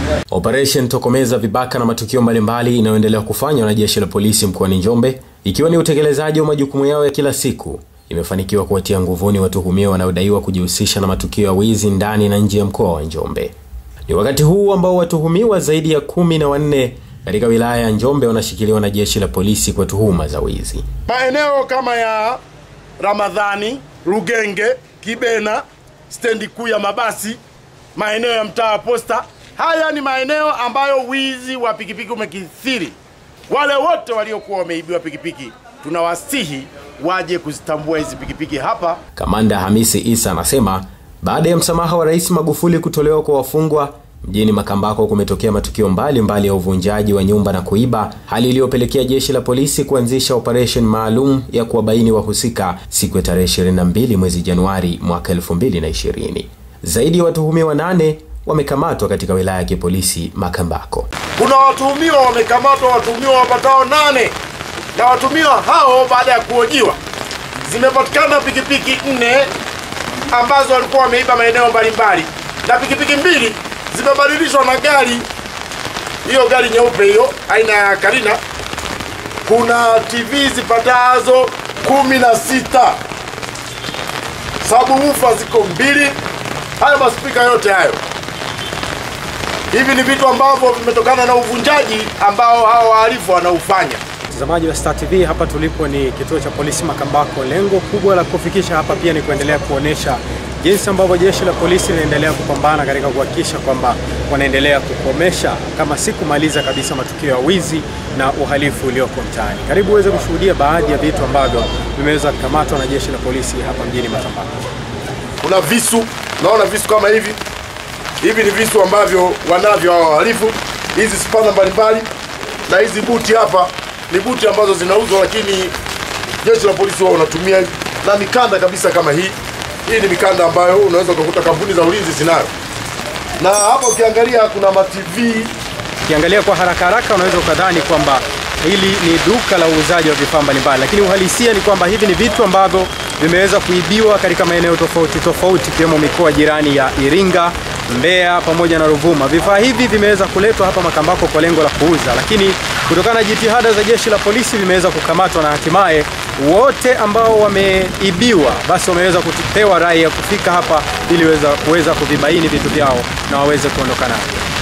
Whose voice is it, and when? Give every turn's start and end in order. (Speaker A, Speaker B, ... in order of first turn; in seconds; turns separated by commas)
Speaker A: 0.3-13.5, Speaker A: 14.1-20.8, Speaker B: 21.1-22.4, Speaker B: 23.0-27.4, Speaker B: 27.9-33.0, Speaker B: 33.5-39.0, Speaker A: 39.1-61.1, Speaker B: 61.4-64.3, Speaker B: 64.9-67.0, Speaker B: 67.6-69.5, Speaker B: 70.3-75.2, Speaker B: 76.2-78.4, Speaker B: 79.4-83.0, Speaker B: 84.6-86.2, Speaker B: 86.8-88.0, Speaker B: 89.7-94.0, Speaker C: 94.3-114.5, Speaker B: 115.4-117.4, Speaker B: 118.2-122.1, Speaker B: 122.7-125.7, Speaker B: 126.4-129.3, Speaker B: 129.9-132.5, Speaker B: 133.4-135.5, Speaker C: 136.0-164.4